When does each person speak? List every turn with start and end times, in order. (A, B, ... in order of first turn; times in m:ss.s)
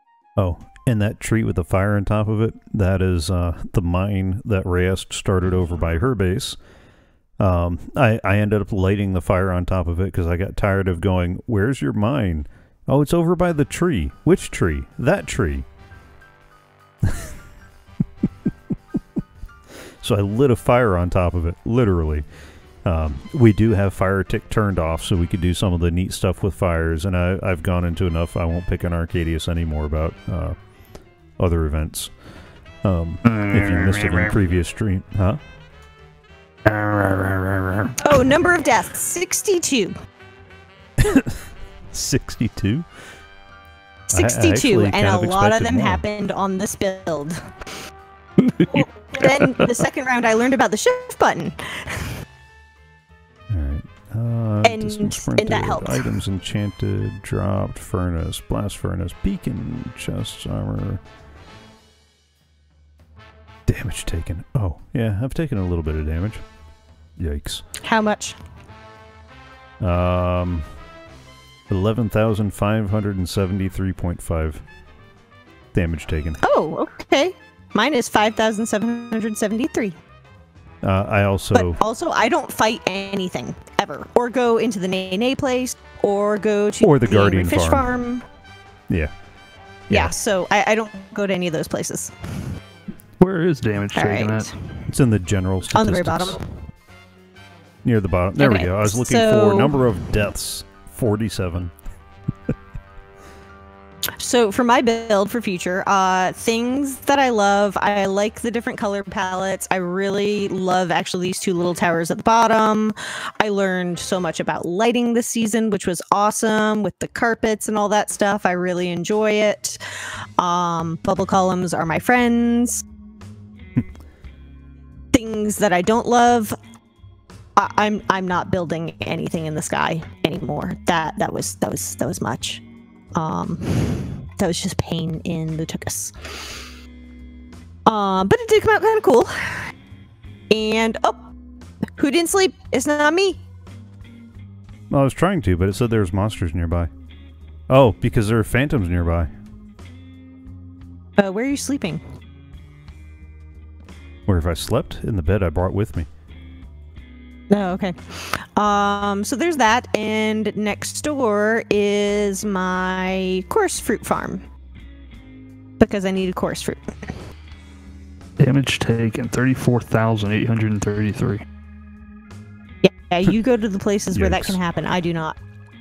0:00.4-0:06.6 A
0:07.4-0:15.6 A
0:17.0-0:17.3 A
0:20.0-0:22.2 A
0:22.8-0:30.6 A
0:31.4-0:32.1 A
0:32.8-0:35.4 A
0:33.2-0:34.4 B
0:36.6-0:38.1 B
0:38.0-0:40.0 C
0:41.0-0:41.3 A
0:41.9-0:42.8 A
0:44.1-0:47.4 C
0:44.1-0:46.0 A
0:48.4-0:48.9 B
0:48.7-0:52.2 C
0:49.4-0:49.7 B
0:53.5-1:01.0 A
0:54.6-0:56.2 C
1:03.7-1:06.4 A
1:07.2-1:07.6 A
1:07.8-1:08.4 C
1:09.8-1:10.6 A
1:11.7-1:14.6 A
1:15.7-1:16.4 A
1:16.4-1:20.0 C
1:20.8-1:21.8 A
1:21.5-1:28.2 C
1:26.8-1:27.9 A
1:29.9-1:30.1 A
1:29.9-1:32.2 C
1:33.2-1:34.5 B
1:33.9-1:34.5 C
1:34.9-1:36.4 A
1:35.7-1:36.4 C
1:37.8-1:41.7 A
1:38.4-1:39.8 C
1:44.2-1:59.8 C
2:00.4-2:02.8 C
2:05.1-2:06.6 C
2:07.6-2:12.6 C
2:13.1-2:16.6 C
2:17.8-2:19.7 C
2:20.5-2:21.3 C
2:22.0-2:23.4 C
2:24.9-2:26.9 A
2:27.7-2:29.3 A
2:31.2-2:32.0 C
2:34.3-2:36.1 A
2:37.5-2:44.4 C
2:45.8-2:47.1 C
2:48.4-2:51.4 B
2:52.8-2:55.4 C
2:54.1-2:54.6 A